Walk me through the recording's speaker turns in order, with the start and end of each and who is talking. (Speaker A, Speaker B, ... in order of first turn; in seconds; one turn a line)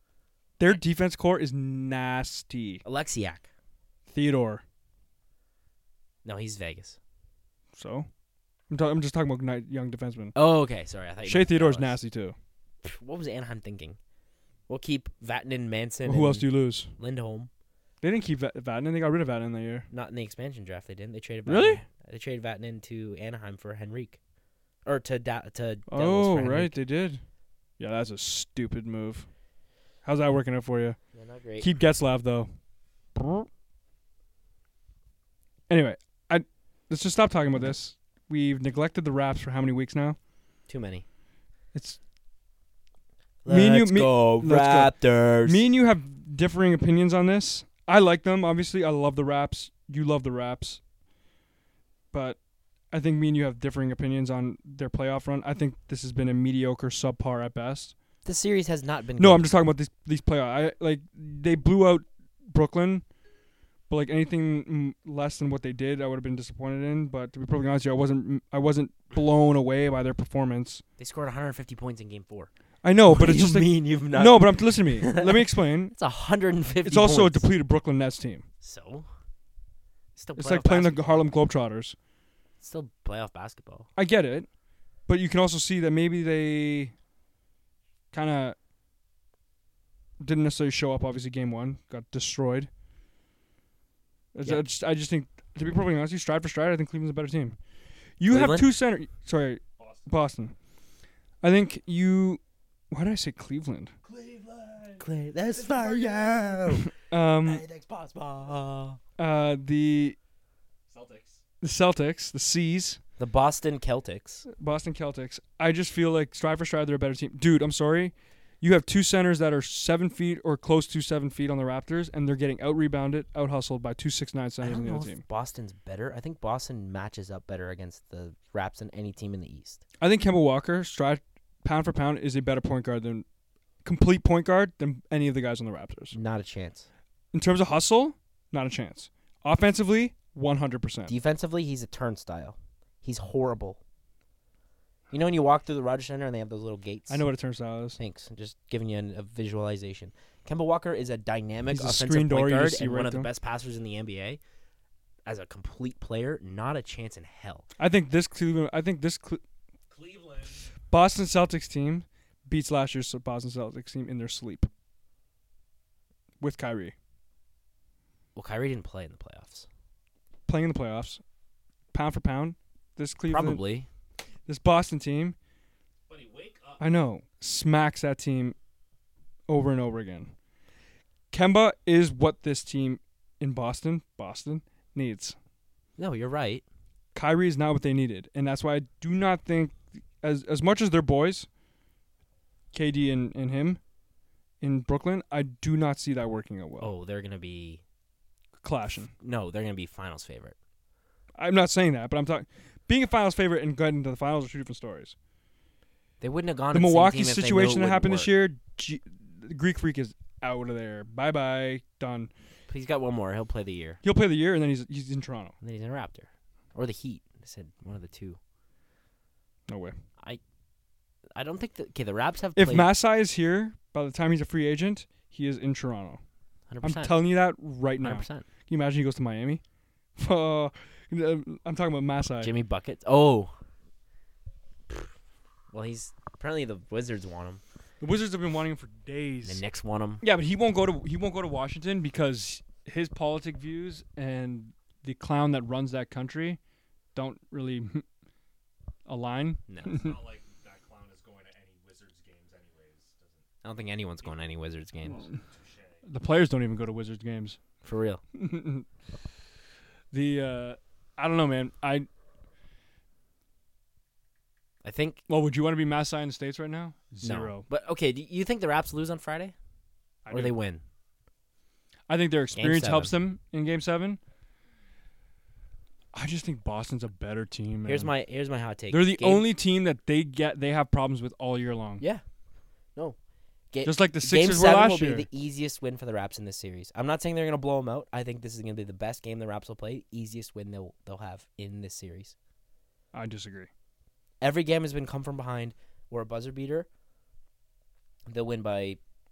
Speaker A: 0.6-2.8
Speaker B: 2.8-3.5
Speaker A: 4.1-4.6
Speaker B: 6.2-7.0
Speaker A: 7.7-8.1
Speaker A: 8.7-10.3
Speaker B: 10.3-12.0
Speaker A: 11.2-12.3
Speaker B: 12.8-14.0
Speaker B: 14.7-17.5
Speaker A: 16.1-16.9
Speaker A: 18.0-19.9
Speaker B: 19.9-24.2
Speaker A: 21.4-21.8
Speaker B: 24.8-26.8
Speaker A: 25.9-27.2
Speaker A: 27.8-29.3
Speaker A: 30.0-31.0
Speaker B: 31.1-31.7
Speaker A: 31.6-32.5
Speaker A: 33.1-33.5
Speaker A: 35.7-40.2
Speaker B: 40.7-41.0
Speaker A: 41.7-42.0
Speaker B: 43.4-45.6
Speaker A: 43.5-50.8
Speaker A: 52.1-52.4
Speaker A: 52.9-57.9
Speaker B: 58.2-59.5
Speaker A: 59.2-63.0
Speaker A: 63.9-70.8
Speaker B: 71.0-72.5
Speaker A: 72.8-75.9
Speaker B: 73.1-77.5
Speaker A: 76.8-78.4
Speaker B: 78.6-79.1
Speaker B: 80.2-81.3
Speaker A: 80.3-82.0
Speaker B: 82.6-83.9
Speaker A: 84.0-84.5
Speaker A: 85.1-86.9
Speaker A: 88.1-88.5
Speaker A: 90.2-92.7
Speaker A: 94.3-97.6
Speaker A: 98.2-100.5
Speaker B: 98.3-98.6
Speaker C: 99.8-100.1
Speaker A: 101.4-103.9
Speaker C: 104.0-106.6
Speaker B: 105.0-109.0
Speaker A: 106.9-107.6
Speaker A: 109.2-110.2
Speaker C: 110.9-111.4
Speaker A: 111.6-113.0
Speaker B: 113.2-114.5
Speaker A: 114.5-125.2
Speaker B: 124.6-129.8
Speaker A: 130.0-133.2
Speaker A: 133.8-136.2
Speaker B: 136.1-136.9
Speaker A: 137.3-141.1
Speaker B: 141.1-143.8
Speaker B: 145.1-147.2
Speaker A: 147.1-148.0
Speaker B: 148.0-154.4
Speaker A: 151.7-153.3
Speaker B: 155.2-157.7
Speaker A: 157.8-159.4
Speaker C: 159.9-160.7
Speaker A: 160.9-164.7
Speaker A: 166.4-166.9
Speaker B: 168.3-169.7
Speaker A: 170.5-171.2
Speaker A: 171.9-173.6
Speaker B: 173.3-173.9
Speaker A: 174.5-175.3
Speaker C: 176.1-176.8
Speaker A: 176.8-178.6
Speaker A: 179.5-180.3
Speaker A: 181.3-185.3
Speaker B: 186.0-186.6
Speaker A: 187.1-191.5
Speaker A: 192.7-193.8
Speaker A: 194.6-196.9
Speaker B: 196.8-197.8
Speaker A: 198.6-199.1
Speaker B: 199.2-200.5
Speaker A: 201.3-205.1
Speaker B: 206.2-208.3
Speaker A: 206.7-212.3
Speaker B: 212.7-214.0
Speaker A: 214.0-215.5
Speaker B: 215.6-218.4
Speaker A: 219.7-219.9
Speaker B: 221.3-222.9
Speaker A: 222.6-226.2
Speaker B: 226.7-227.2
Speaker A: 226.8-229.6
Speaker B: 228.0-228.4
Speaker A: 230.2-232.5
Speaker B: 232.4-233.5
Speaker B: 235.7-237.6
Speaker A: 238.0-239.6
Speaker B: 239.4-240.2
Speaker A: 240.2-246.6
Speaker A: 247.1-248.0
Speaker A: 249.1-250.1
Speaker B: 249.7-250.0
Speaker C: 249.8-253.5
Speaker B: 253.6-255.3
Speaker C: 255.0-256.1
Speaker A: 256.0-257.6
Speaker B: 257.8-258.2
Speaker A: 258.3-258.9
Speaker A: 260.1-262.1
Speaker B: 264.8-265.2
Speaker A: 265.3-267.6
Speaker B: 267.2-269.5
Speaker A: 270.2-270.5
Speaker B: 270.3-270.8
Speaker A: 272.1-274.2
Speaker B: 272.5-273.1
Speaker A: 276.1-278.1
Speaker B: 277.9-279.4
Speaker A: 278.9-282.0
Speaker B: 283.7-292.3
Speaker A: 283.8-285.3
Speaker A: 293.1-293.7
Speaker B: 294.4-296.9
Speaker B: 298.3-299.0